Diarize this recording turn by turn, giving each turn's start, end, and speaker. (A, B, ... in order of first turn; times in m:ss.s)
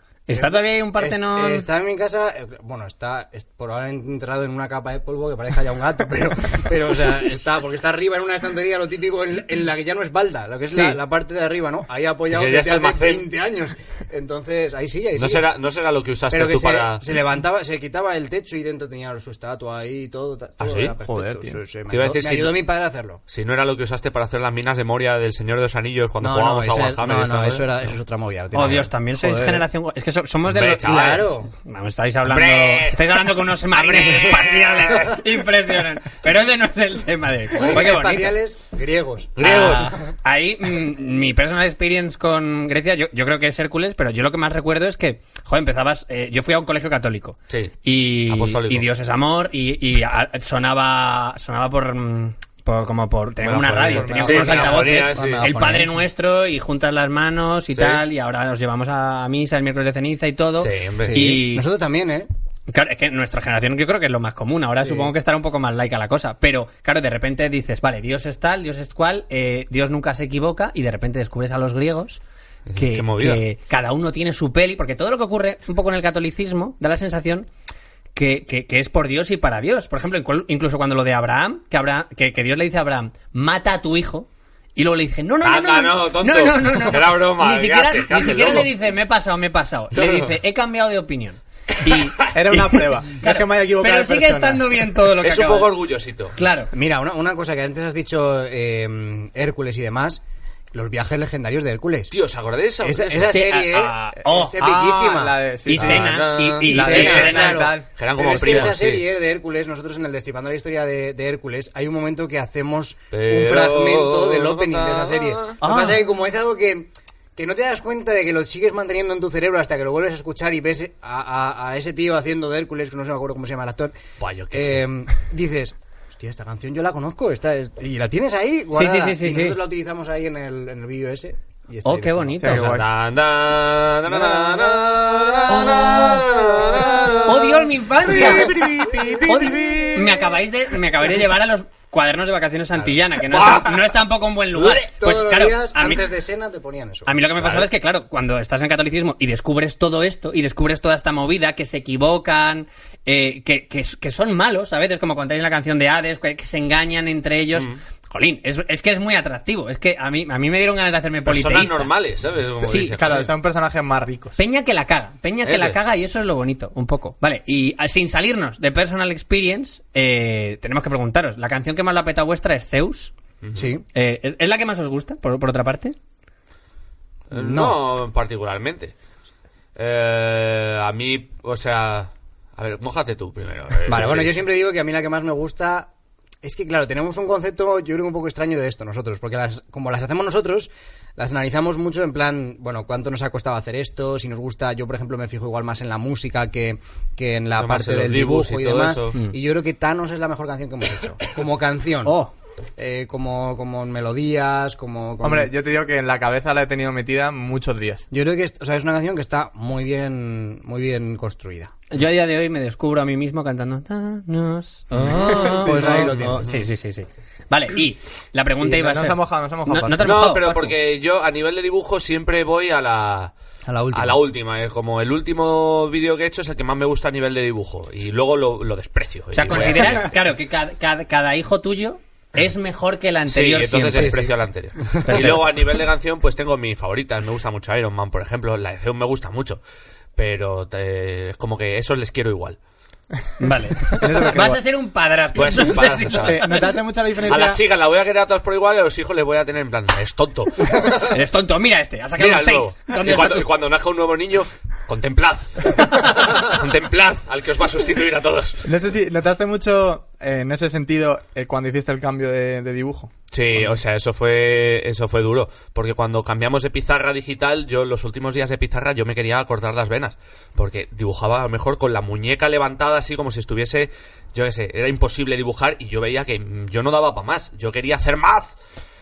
0:00.3-0:01.7 A
0:00.3-0:15.5 B
0:10.7-0:11.0 A
0:12.3-0:13.3 C
0:15.2-0:17.0 C
0:16.3-0:23.2 B
0:20.6-0:21.0 C
0:21.0-0:21.6 D
0:21.9-0:22.6 C
0:23.3-0:27.9 C
0:26.2-0:28.9 B
0:28.5-0:38.4 A
0:29.2-0:29.6 D
0:30.5-0:31.3 C
0:30.8-0:31.5 B
0:32.3-0:35.2 C
0:34.0-0:34.5 B
0:37.5-0:39.4 B
0:39.4-0:39.9 C
0:39.4-1:01.7 A
0:47.5-0:47.8 C
0:48.3-0:48.9 C
0:53.4-0:55.5 C
0:53.9-0:55.5 D
0:55.2-0:56.0 B
0:57.8-0:58.0 C
1:00.6-1:01.4 C
1:01.0-1:02.3 B
1:02.7-1:12.2 A
1:04.8-1:05.1 B
1:12.7-1:13.4 C
1:12.8-1:17.5 A
1:18.2-1:35.8 A
1:25.4-1:28.7 C
1:29.9-1:30.3 C
1:32.3-1:34.8 D
1:35.2-1:36.4 C
1:36.4-1:36.7 A
1:36.7-1:40.2 B
1:40.7-1:42.1 B
1:42.1-1:43.4 C
1:42.8-1:45.4 B
1:43.3-1:44.6 A
1:44.4-1:47.9 D
1:45.7-1:47.6 A
1:45.8-1:49.0 C
1:46.7-2:03.9 B
1:53.1-1:55.6 C
1:55.6-1:56.0 A
2:04.2-2:04.9 C
2:04.5-2:12.6 B
2:08.7-2:09.6 A
2:11.8-2:12.8 A
2:12.4-2:12.9 D
2:12.5-2:17.5 C
2:14.1-2:19.9 B
2:15.5-2:16.2 A
2:17.2-2:18.6 A
2:18.1-2:20.1 C
2:19.2-2:26.0 A
2:23.2-2:23.8 C
2:24.6-2:27.1 B
2:27.1-2:41.9 A
2:27.4-2:27.7 C
2:41.3-2:43.3 C
2:42.6-2:43.0 A
2:42.8-2:44.4 D
2:44.4-2:53.1 A
2:45.4-2:45.8 C
2:53.4-2:53.7 C
2:53.6-2:53.8 B
2:53.9-2:56.0 A
2:57.3-2:58.9 C
2:57.3-2:57.8 B
2:59.8-3:04.4 C
3:03.9-3:05.9 B
3:06.4-3:22.2 B
3:17.6-3:19.2 C
3:22.0-3:22.3 A
3:22.8-3:25.5 B
3:25.2-3:28.1 D
3:28.1-3:31.8 B
3:31.9-3:40.7 A
3:35.2-3:36.5 B
3:35.6-3:36.2 D
3:36.2-3:36.6 C
3:38.6-3:40.3 D
3:40.0-3:43.3 C
3:43.7-3:44.2 B
3:43.9-3:50.1 C
3:49.3-3:54.2 A
3:53.3-3:59.6 C
3:54.0-3:55.3 B
3:55.1-3:55.5 A
4:00.2-4:02.6 C
4:03.4-4:06.6 A
4:03.8-4:04.6 D
4:05.4-4:06.4 C
4:06.2-4:07.6 D
4:07.2-4:11.0 C
4:11.0-4:13.5 A
4:12.2-4:18.7 C
4:18.6-4:23.1 D
4:23.3-4:38.6 C